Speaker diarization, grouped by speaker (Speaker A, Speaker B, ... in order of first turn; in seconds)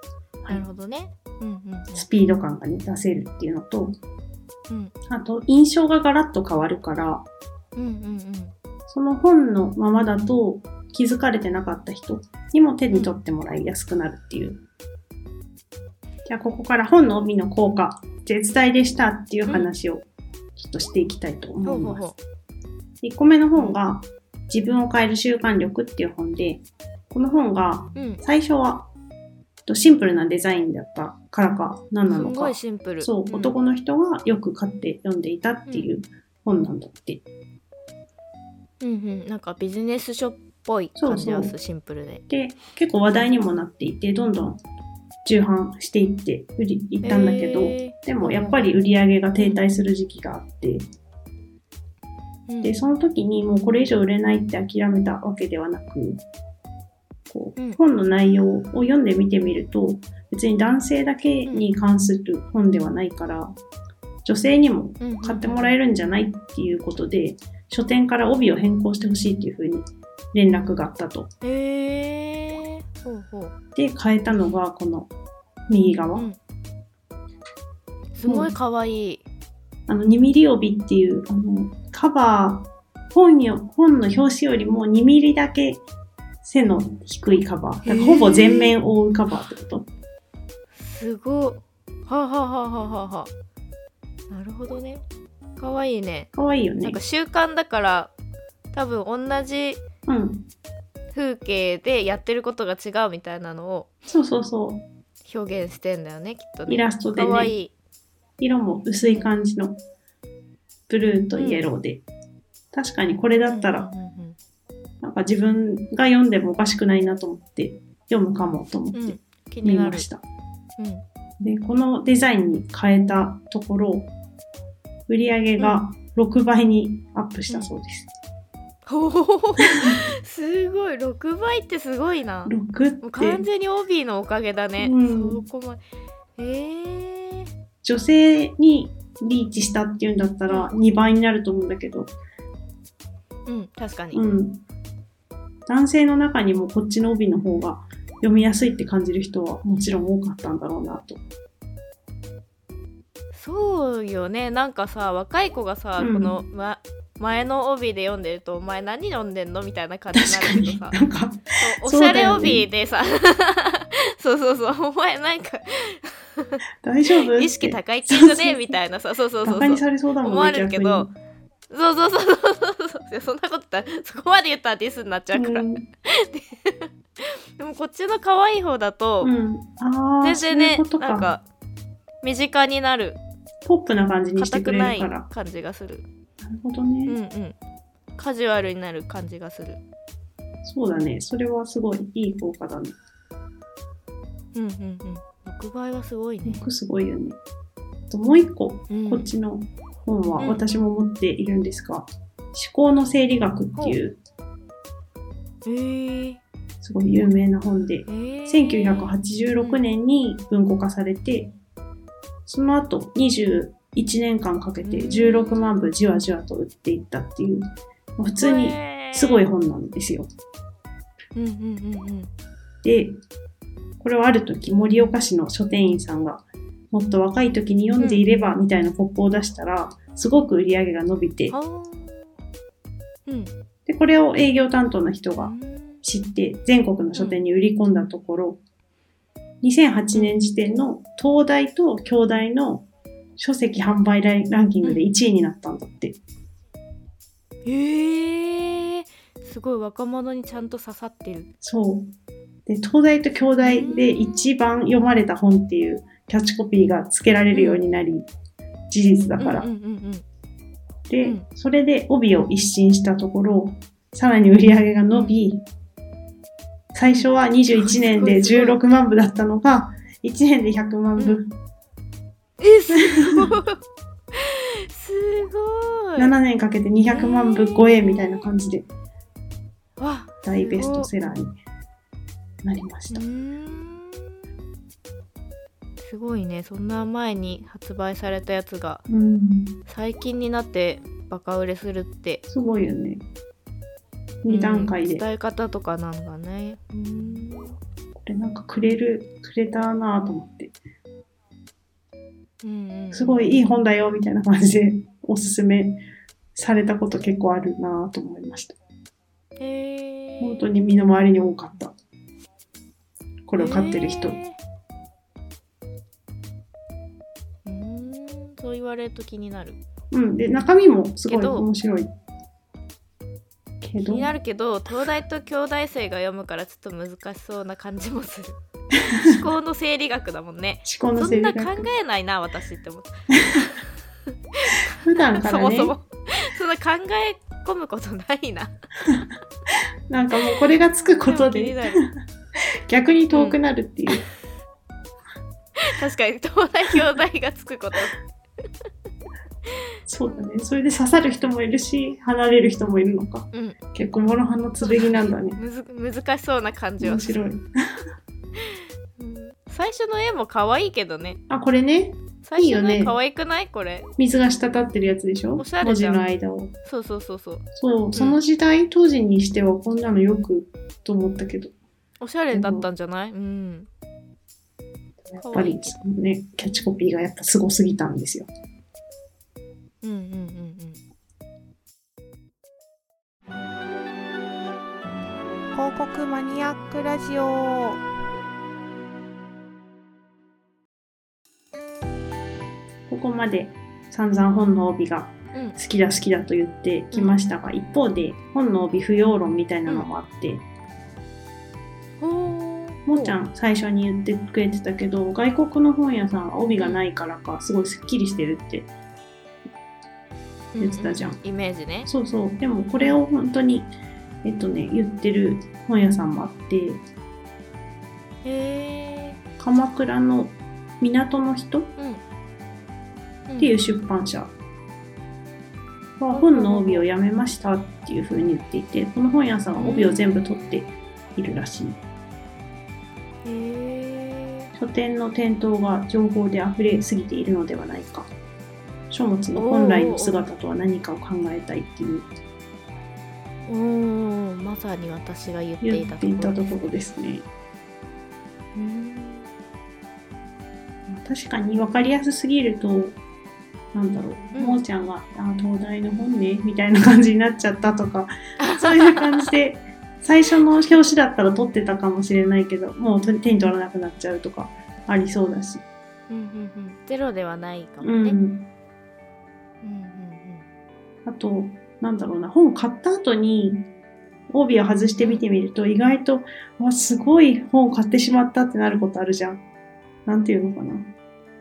Speaker A: 0.5-2.1, 4.7-4.9, 7.8-8.5, 21.6-22.2, 27.9-28.2, 32.1-33.5, 38.8-42.2, 47.0-48.7, 52.5-52.7, 65.0-65.8, 71.4-73.5, 78.1-79.2, 87.8-88.7, 90.7-93.3, 94.3-95.0, 95.6-96.3, 96.8-98.1, 98.7-99.8, 101.1-103.9, 105.2-107.7, 111.3-111.7, 113.5-114.4, 118.9-120.1, 120.8-121.0, 128.8-135.8, 136.4-137.5, 143.4-144.2, 153.3-161.0, 161.6-166.6, 167.3-171.1, 171.7-179.3, 180.2-181.4, 182.2-183.2, 184.3-186.1, 187.1-187.6, 188.2-189.8, 194.5-196.6, 198.9-199.3, 205.6-206.4, 208.1-209.8, 214.8-215.7, 218.4-219.4, 221.3-222.3, 228.0-228.2, 231.5-232.3, 233.2-233.5, 235.4-236.0, 237.1-237.4, 240.1-240.4, 247.6-251.5, 253.6-254.4, 257.5-257.8, 259.4-260.2, 265.1-265.4, 267.1-268.8, 272.6-273.8, 274.3-276.3, 277.1-278.5, 280.0-281.1, 283.1-284.4, 286.0-289.0, 289.9-292.4, 294.5-297.8, 302.6-303.5, 309.6-310.7, 313.6-314.6, 317.6-319.8, 321.2-321.6, 324.0-328.6, 329.1-338.7, 341.2-342.1, 343.3-343.6, 345.8-348.1, 354.8-357.5, 358.6-361.4, 362.4-364.1, 365.6-366.2, 366.8-368.4, 372.2-373.9, 375.4-376.0, 380.0-381.0, 397.1-397.4, 402.2-403.4, 410.7-412.1, 418.4-419.4, 422.0-422.2, 423.5-423.7, 426.3-427.1, 429.8-430.3, 433.4-434.7, 439.6-440.5, 443.6-446.7, 448.7-449.5, 454.5-454.8, 458.6-459.5, 466.3-468.4, 469.8-470.6
Speaker B: 1.9-4.0, 5.1-7.2, 8.9-14.6, 16.2-22.0, 23.0-28.9, 29.6-37.2, 41.0-41.5, 42.3-44.6, 45.2-50.9, 52.6-56.2, 57.3-63.5, 64.2-71.3, 73.7-75.1, 75.7-76.3, 78.2-78.5, 79.9-85.8, 86.4-89.9, 96.3-97.0, 100.1-100.5, 104.1-104.8, 106.7-107.5, 108.4-109.8, 110.9-112.0, 112.7-113.9, 115.0-120.2, 121.4-124.1, 125.1-128.1, 132.4-133.4, 134.8-135.4, 137.8-142.1, 144.1-144.6, 145.7-151.2, 156.0-156.4, 160.1-162.7, 166.8-168.7, 169.4-171.1, 175.3-175.8, 179.2-181.3, 183.6-185.2, 186.4-187.2, 190.6-193.0, 196.4-197.4, 198.1-204.2, 206.8-211.5, 212.5-220.3, 222.8-223.2, 224.0-231.6, 233.8-238.6, 239.6-242.8, 243.4-246.2, 251.6-252.1, 252.7-258.3, 258.9-259.7, 261.1-265.6, 266.9-271.6, 272.9-273.5, 276.2-278.9, 280.4-281.6, 282.6-283.2, 289.1-289.8, 292.5-293.2, 294.4-295.2, 298.2-300.7, 303.1-306.0, 306.6-308.8, 310.4-311.9, 313.5-314.4, 320.1-322.1, 323.8-324.3, 329.0-329.4, 330.8-331.9, 334.7-335.9, 340.1-342.1, 342.9-344.2, 350.1-355.6, 357.0-357.7, 361.5-363.1, 364.2-366.7, 367.7-371.7, 372.5-372.9, 375.3-378.5, 393.1-400.6, 403.1-408.9, 410.8-411.4, 412.0-413.9, 414.4-417.0, 419.6-421.9, 423.6-424.5, 426.2-432.0, 434.8-438.3, 439.1-442.3, 445.8-447.5, 451.1-453.2, 453.9-465.8, 468.0-468.7, 471.2-473.9, 474.5-479.6, 480.2-481.1
Speaker C: 385.7-388.0